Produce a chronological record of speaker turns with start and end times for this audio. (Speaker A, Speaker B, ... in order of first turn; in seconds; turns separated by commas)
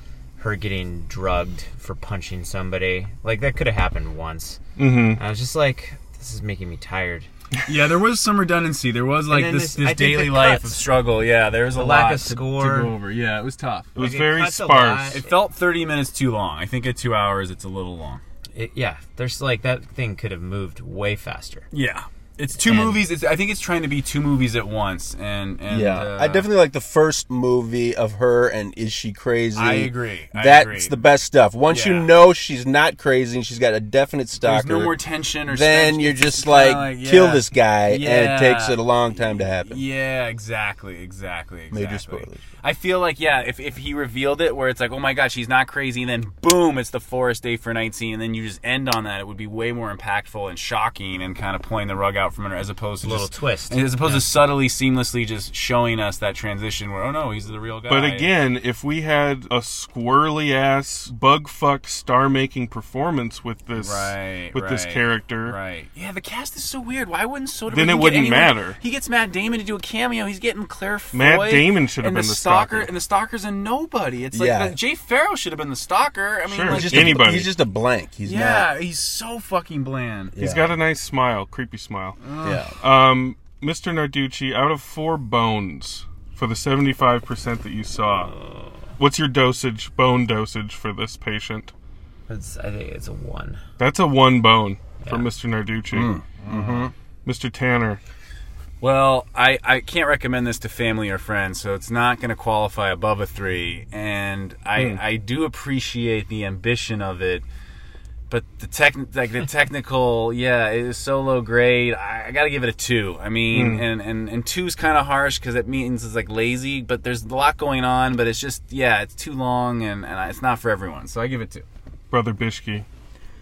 Speaker A: 0.4-7.3, Speaker B: 4.8-5.2, Speaker C: 7.7-14.0, Speaker A: 9.3-10.8, Speaker A: 11.7-12.9, Speaker B: 13.9-15.2, Speaker A: 14.0-15.4, Speaker C: 15.1-18.2, Speaker A: 18.5-21.7, Speaker C: 21.7-26.5, Speaker A: 22.6-23.0, Speaker D: 25.7-34.9, Speaker C: 29.6-31.0, Speaker C: 31.7-32.1, Speaker C: 34.4-38.8, Speaker D: 35.5-39.8, Speaker C: 39.5-58.3, Speaker D: 41.7-42.4, Speaker A: 53.0-54.3, Speaker B: 57.9-65.5, Speaker C: 63.8-77.3, Speaker B: 67.7-68.8, Speaker B: 71.1-72.9, Speaker D: 74.3-74.8, Speaker B: 76.5-77.5, Speaker D: 76.7-78.7, Speaker C: 78.2-80.3, Speaker D: 80.3-80.7, Speaker B: 80.4-82.2, Speaker C: 82.2-82.7, Speaker D: 82.4-82.8, Speaker B: 82.8-88.3, Speaker B: 89.0-91.7, Speaker A: 92.3-93.6, Speaker B: 93.8-96.1, Speaker A: 95.0-95.3, Speaker D: 95.9-96.9, Speaker C: 96.5-96.8, Speaker B: 97.2-98.0, Speaker C: 98.8-107.4, Speaker C: 108.3-121.6, Speaker B: 113.5-113.8, Speaker B: 122.1-122.8